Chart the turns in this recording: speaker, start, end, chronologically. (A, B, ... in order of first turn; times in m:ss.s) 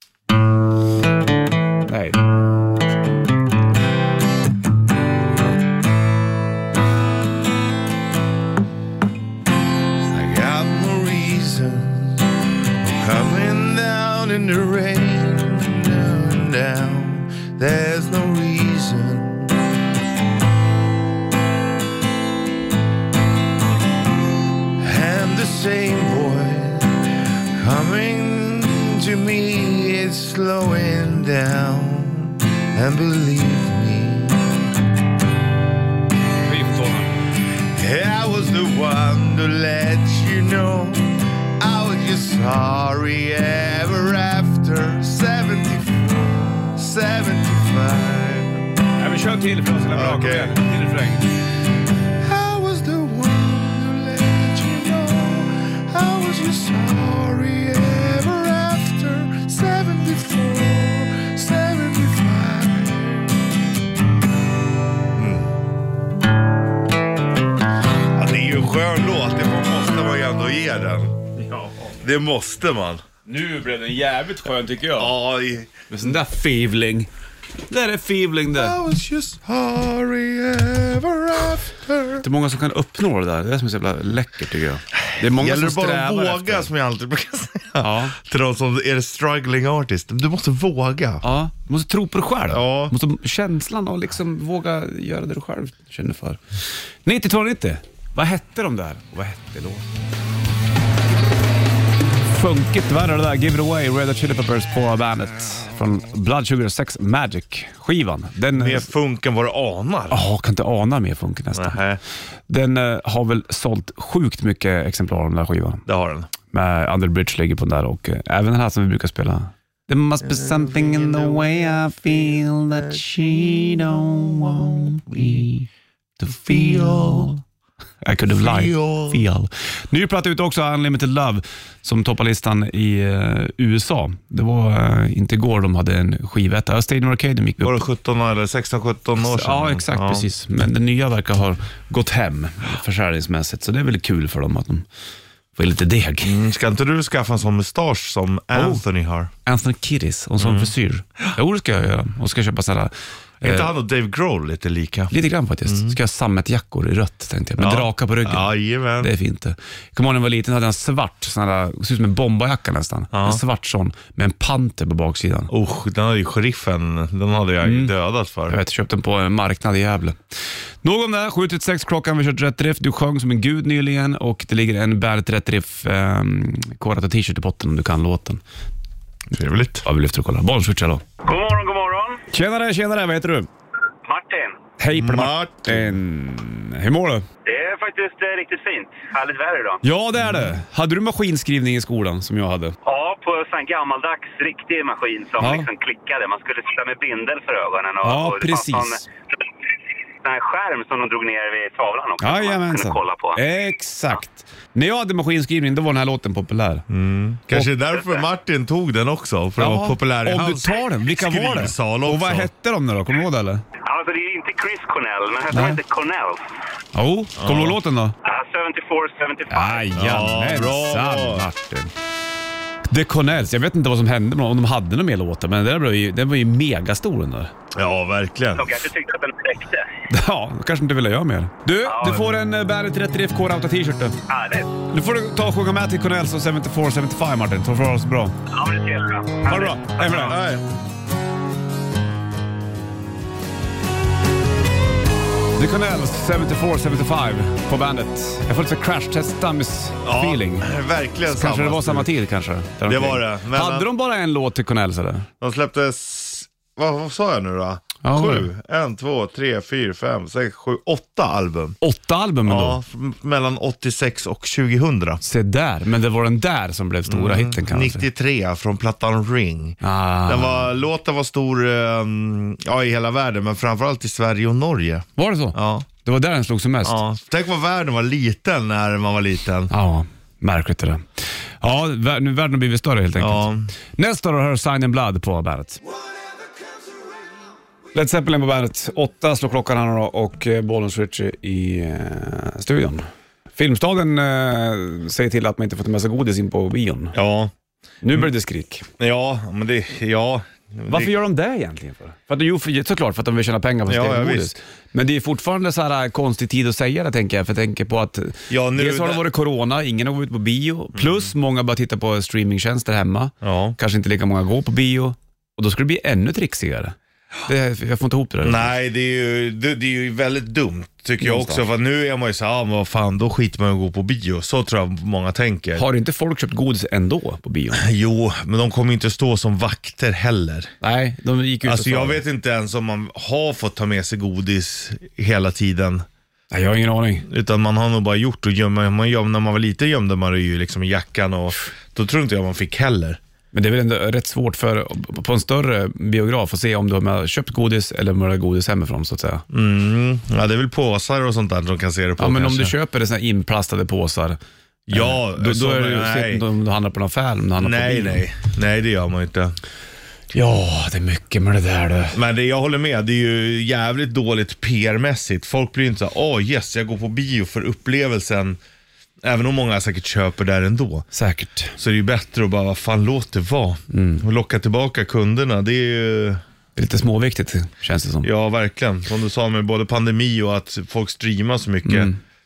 0:01.9-0:02.2 A
0:10.1-0:19.6 B
0:24.8-0:34.6 B
0:36.4-0:37.2 A
0:37.7-0:48.7 B
0:49.0-0:51.3 A
0:49.9-0:50.6 B
0:52.2-1:03.4 B
1:05.1-1:05.5 B
1:08.0-1:11.2 B
1:11.5-1:11.9 A
1:12.0-1:13.0 B
1:13.3-1:15.2 A
1:14.9-1:15.7 B
1:15.9-1:17.1 A
1:17.7-1:18.8 A
1:18.5-1:22.2 B
1:22.2-1:26.7 A
1:25.1-1:31.2 B
1:27.8-1:28.2 A
1:31.2-1:36.4 A
1:32.5-1:32.9 B
1:37.0-1:39.9 A
1:42.3-1:48.9 A
1:48.5-1:50.2 B
1:50.1-1:51.8 A
1:51.5-1:52.0 B
1:52.5-1:55.8 A
1:55.9-1:56.3 B
1:56.5-2:05.7 A
2:00.2-2:05.4 B
2:06.2-2:07.4 A
2:06.5-2:07.4 B
2:08.0-2:17.8 A
2:08.3-2:09.2 B
2:17.6-2:20.3 B
2:19.2-2:24.8 A
2:25.6-2:26.4 A
2:26.2-2:29.3 B
2:28.5-2:28.8 A
2:29.5-2:33.7 A
2:30.4-2:30.7 B
2:33.4-2:35.1 B
2:35.1-2:38.5 A
2:35.7-2:36.0 B
2:37.6-2:39.1 B
2:39.0-2:45.5 A
2:43.1-2:43.4 B
2:45.5-2:48.6 B
2:47.6-2:47.9 A
2:48.5-2:50.2 A
2:50.8-2:58.4 A
2:59.3-2:59.9 B
2:59.8-3:01.0 A
3:01.2-3:02.2 C
3:02.3-3:03.5 A
3:04.1-3:04.6 C
3:04.8-3:07.3 A
3:04.9-3:06.0 B
3:07.5-3:09.8 C
3:09.8-3:12.8 A
3:10.2-3:10.5 B
3:12.9-3:19.0 C
3:15.4-3:15.7 A
3:18.0-3:19.0 A
3:20.2-3:23.4 C
3:22.2-3:26.9 A
3:26.9-3:32.5 B
3:29.6-3:33.6 A
3:33.8-3:36.4 C
3:35.5-3:35.8 A
3:36.9-3:38.1 A
3:37.4-3:37.8 B
3:38.2-3:39.8 C
3:39.5-3:41.9 A
3:40.0-3:41.5 B
3:42.9-3:47.5 A
3:47.7-3:48.8 B
3:48.6-3:49.9 C
3:50.1-3:54.2 A
3:51.9-3:52.3 C
3:54.3-3:54.7 C
3:54.9-3:58.4 A
3:58.5-4:00.3 C
3:59.5-4:00.4 A
4:00.0-4:00.6 B
4:05.6-4:10.7 A
4:10.0-4:12.1 B
4:11.3-4:15.3 A
4:12.9-4:13.9 B
4:15.4-4:21.8 B
4:18.0-4:18.5 A
4:21.8-4:22.8 A
4:22.4-4:25.2 B
4:25.2-4:28.1 A
4:27.1-4:35.9 B
4:29.8-4:30.7 A
4:35.2-4:37.0 A
4:36.8-4:39.7 B
4:39.7-4:45.8 A
4:43.2-4:43.7 B
4:47.9-4:57.2 A
4:57.1-4:57.5 B
4:58.0-4:58.9 A
4:59.0-5:01.2 B
5:00.9-5:17.0 A
5:03.9-5:04.5 B
5:08.5-5:09.2 B
5:11.0-5:11.3 B
5:13.4-5:13.8 B
5:17.5-5:18.7 A
5:18.4-5:25.8 B
5:21.2-5:21.6 A
5:25.8-5:27.8 A
5:27.7-5:30.7 B
5:30.8-5:32.2 A
5:31.6-5:36.1 B
5:36.5-5:37.3 A
5:37.3-5:43.2 B
5:43.5-5:49.4 A
5:49.5-5:52.8 B
5:52.2-5:54.4 A
5:54.9-5:56.4 B
5:54.9-5:58.2 A
5:57.6-5:59.6 B
6:00.3-6:02.2 A
6:02.1-6:08.6 B
6:09.2-6:11.1 B
6:11.1-6:11.8 A
6:11.8-6:16.4 B
6:13.9-6:14.2 A
6:16.8-6:18.3 A
6:18.2-6:22.1 B
6:21.8-6:22.2 A